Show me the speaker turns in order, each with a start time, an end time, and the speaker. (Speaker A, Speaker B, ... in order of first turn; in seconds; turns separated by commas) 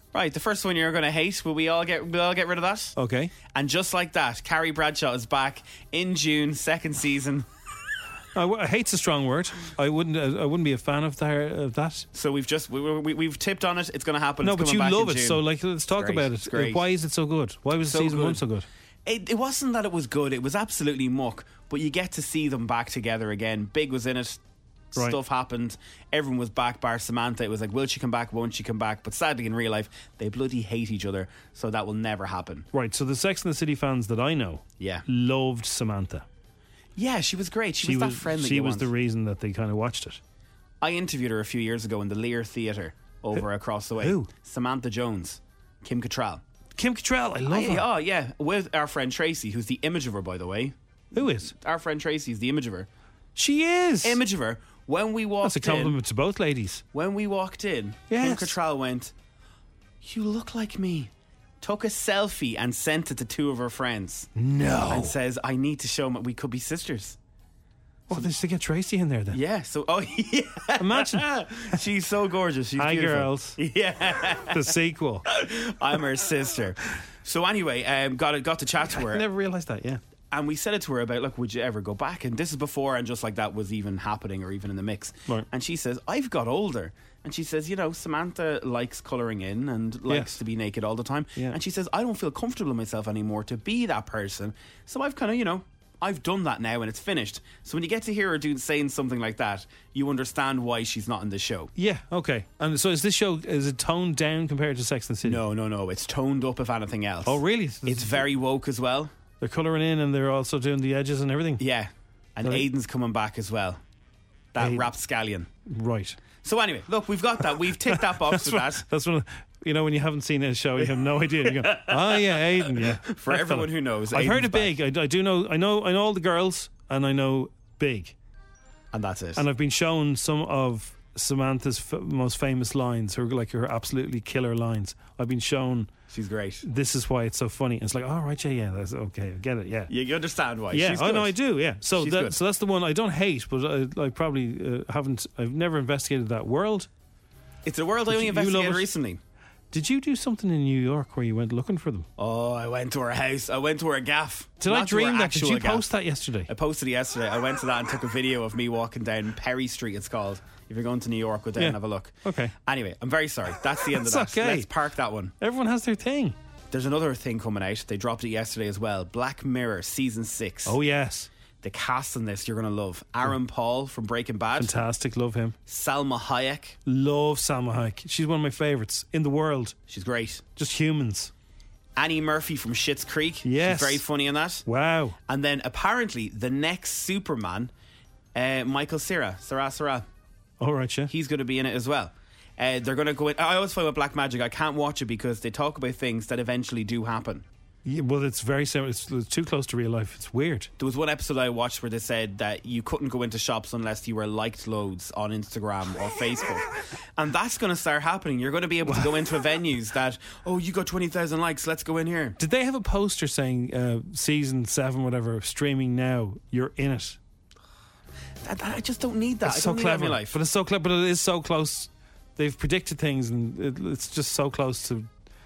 Speaker A: 0.1-3.0, Speaker B: 3.0-3.3, Speaker A: 3.5-7.5, Speaker B: 8.3-12.1, Speaker A: 12.1-15.4, Speaker B: 14.4-18.6, Speaker A: 15.9-16.8, Speaker A: 17.8-18.4, Speaker A: 19.1-24.4, Speaker A: 24.9-32.7, Speaker B: 32.7-36.2, Speaker A: 34.8-35.0, Speaker A: 37.0-38.9, Speaker B: 37.8-40.2, Speaker A: 40.8-46.4, Speaker B: 44.0-44.2, Speaker B: 46.8-47.9, Speaker A: 47.5-52.9, Speaker B: 51.1-51.5, Speaker B: 53.4-54.2, Speaker A: 54.0-56.0, Speaker B: 55.4-56.8, Speaker A: 56.9-59.1, Speaker B: 58.1-58.5, Speaker A: 60.0-61.1, Speaker A: 61.6-64.3, Speaker B: 64.4-65.1, Speaker A: 64.8-67.2, Speaker B: 68.1-69.4, Speaker A: 69.3-74.7, Speaker B: 70.8-71.2, Speaker B: 72.8-73.6, Speaker B: 74.5-75.2, Speaker A: 75.3-79.2, Speaker B: 78.9-80.0, Speaker A: 80.3-101.7, Speaker B: 90.1-90.3, Speaker B: 101.8-105.4, Speaker A: 105.2-109.1, Speaker B: 107.3-108.2, Speaker B: 109.4-111.6, Speaker A: 111.6-113.8, Speaker A: 114.5-115.5, Speaker B: 114.6-114.8, Speaker B: 115.7-116.2, Speaker A: 116.4-118.8, Speaker B: 118.1-128.1, Speaker A: 120.8-124.8, Speaker A: 128.9-129.4, Speaker B: 129.3-135.9, Speaker A: 136.1-136.6, Speaker B: 136.6-139.9, Speaker A: 139.9-141.3, Speaker B: 140.7-146.9, Speaker A: 141.9-142.3, Speaker A: 147.6-149.2, Speaker B: 148.1-148.8, Speaker B: 149.7-152.1, Speaker A: 152.2-155.8, Speaker B: 154.6-156.5, Speaker A: 156.5-165.3, Speaker B: 161.6-162.5, Speaker B: 164.0-164.7, Speaker B: 165.4-166.4, Speaker A: 166.7-170.8, Speaker B: 170.7-171.3, Speaker A: 171.6-174.8, Speaker B: 174.5-175.5, Speaker A: 175.7-176.8, Speaker B: 176.8-179.8, Speaker A: 179.9-180.4, Speaker B: 180.6-181.3, Speaker A: 181.9-184.7, Speaker B: 183.4-184.0, Speaker B: 184.7-185.1, Speaker A: 185.3-187.7, Speaker A: 188.3-190.1, Speaker B: 190.6-191.1, Speaker A: 191.1-197.4, Speaker B: 197.8-200.7, Speaker A: 200.8-212.4, Speaker B: 208.8-209.1, Speaker B: 212.4-217.2, Speaker A: 218.4-220.3, Speaker B: 219.4-225.1